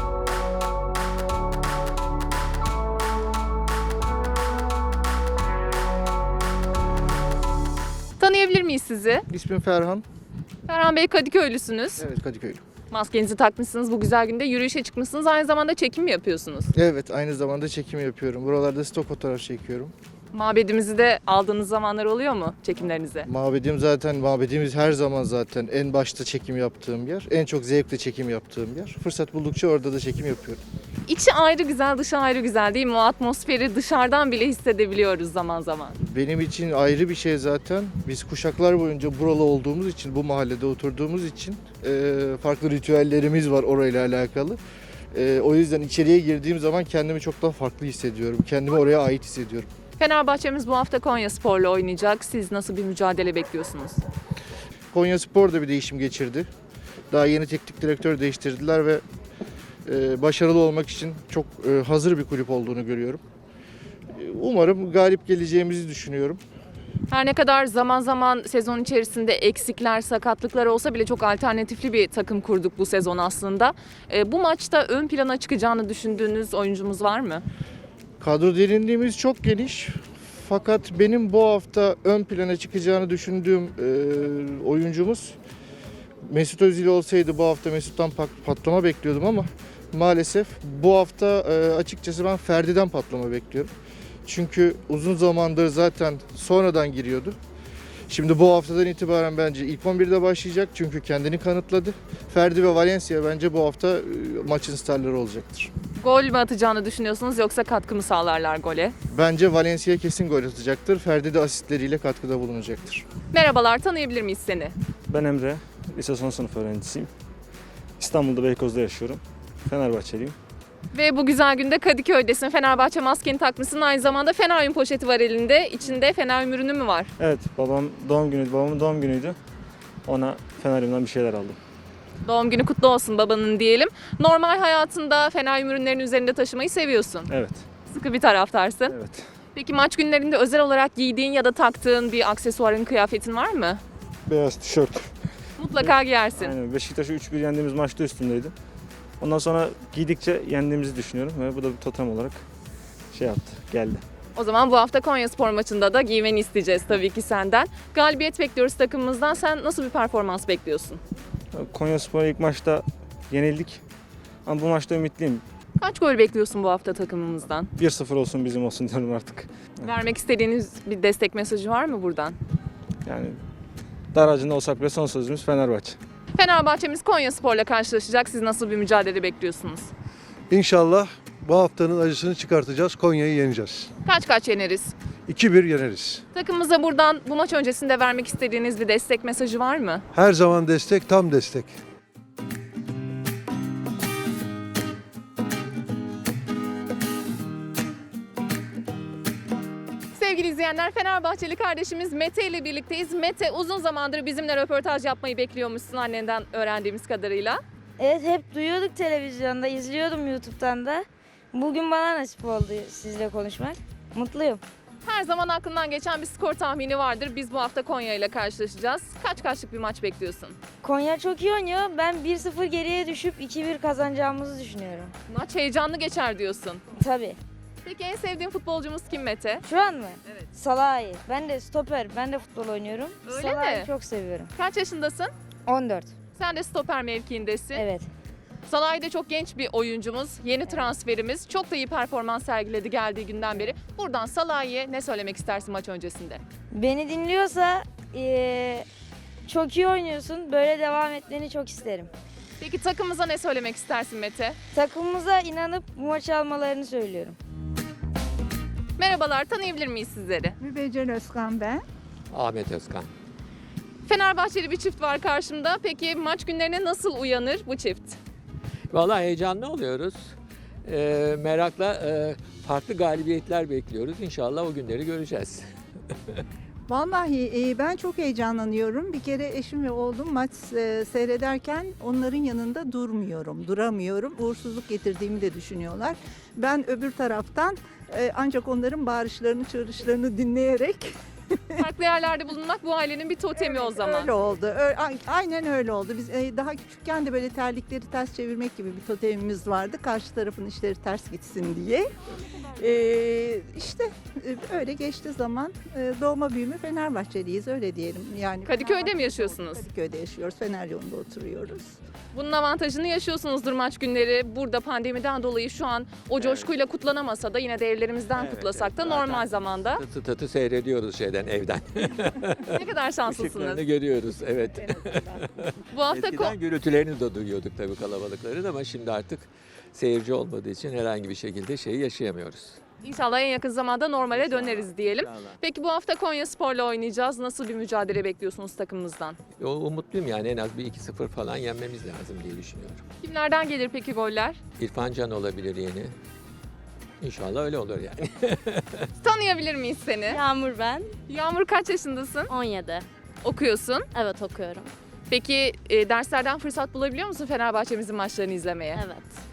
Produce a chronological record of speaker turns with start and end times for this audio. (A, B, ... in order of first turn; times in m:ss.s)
0:08.2-0:09.2 A
0:09.3-0:10.0 B
0:10.7-0:12.0 A
0:12.0-0:12.6 B
0:12.9-0:16.7 A
0:16.7-0:19.9 B
0:20.3-0:23.3 A
0:23.2-0:30.6 B
0:31.1-0:36.0 A
0:36.0-0:44.6 B
0:45.1-0:49.7 B
0:50.0-0:54.0 A
0:54.9-0:56.5 B
0:57.1-0:59.0 B
0:59.8-1:03.2 B
1:04.2-1:06.4 B
1:07.1-1:17.4 A
1:18.2-1:25.4 B
1:26.2-1:33.7 B
1:34.2-1:37.4 B
1:38.1-1:45.7 B
1:46.0-1:48.9 A
1:49.1-1:53.0 B
1:53.3-1:54.7 A
1:55.1-1:57.1 C
1:58.0-2:00.4 C
2:00.9-2:07.1 A
2:07.2-2:09.4 C
2:10.0-2:11.6 C
2:12.2-2:17.3 A
2:17.3-2:17.6 C
2:17.9-2:18.9 A
2:18.9-2:19.2 C
2:19.5-2:23.8 A
2:24.3-2:25.1 C
2:25.6-2:26.5 A
2:25.8-2:28.5 C
2:29.2-2:32.4 C
2:33.1-2:34.0 C
2:34.3-2:41.0 A
2:41.5-2:43.8 C
2:44.4-2:45.4 C
2:45.8-2:47.7 A
2:47.8-2:49.5 C
2:49.8-2:52.4 A
2:53.0-2:53.4 C
2:54.1-2:56.0 C
2:56.4-2:59.9 A
3:00.5-3:03.9 D
3:04.0-3:04.9 A
3:05.3-3:06.2 D
3:06.3-3:10.0 A
3:10.1-3:11.7 D
3:20.1-3:27.6 A
3:28.0-3:34.6 E
3:35.0-3:40.6 A
3:40.8-3:45.1 E
3:45.3-3:46.8 A
3:47.0-3:47.4 E
3:47.8-3:49.6 A
3:49.6-3:54.5 E
3:53.2-3:53.9 A
3:54.5-3:55.3 A
3:55.7-3:56.1 E
3:56.4-3:57.9 A
3:57.7-3:58.1 E
3:58.6-4:06.4 A
4:06.7-4:08.8 E
4:09.5-4:12.1 E
4:12.6-4:14.6 A
4:14.7-4:17.4 E
4:19.0-4:20.6 A
4:20.6-4:21.8 F
4:22.3-4:23.1 G
4:24.0-4:28.2 A
4:28.9-4:30.3 G
4:30.8-4:35.6 G
4:36.9-4:51.1 F
4:51.8-4:54.3 A
4:53.6-5:02.1 F
5:02.8-5:11.9 F
5:08.6-5:09.8 A
5:12.3-5:20.0 A
5:16.4-5:16.7 G
5:18.4-5:32.8 G
5:22.7-5:23.8 A
5:25.9-5:26.6 A
5:33.0-5:39.4 A
5:34.3-5:35.6 G
5:39.6-5:43.0 G
5:43.2-5:44.6 A
5:44.8-5:46.1 G
5:47.2-5:49.0 G
5:49.2-5:50.4 A
5:50.3-5:51.2 H
5:51.3-5:52.5 A
5:52.5-5:53.0 H
5:53.4-5:54.1 A
5:54.1-5:54.9 H
5:55.3-5:59.0 A
5:58.9-5:59.4 H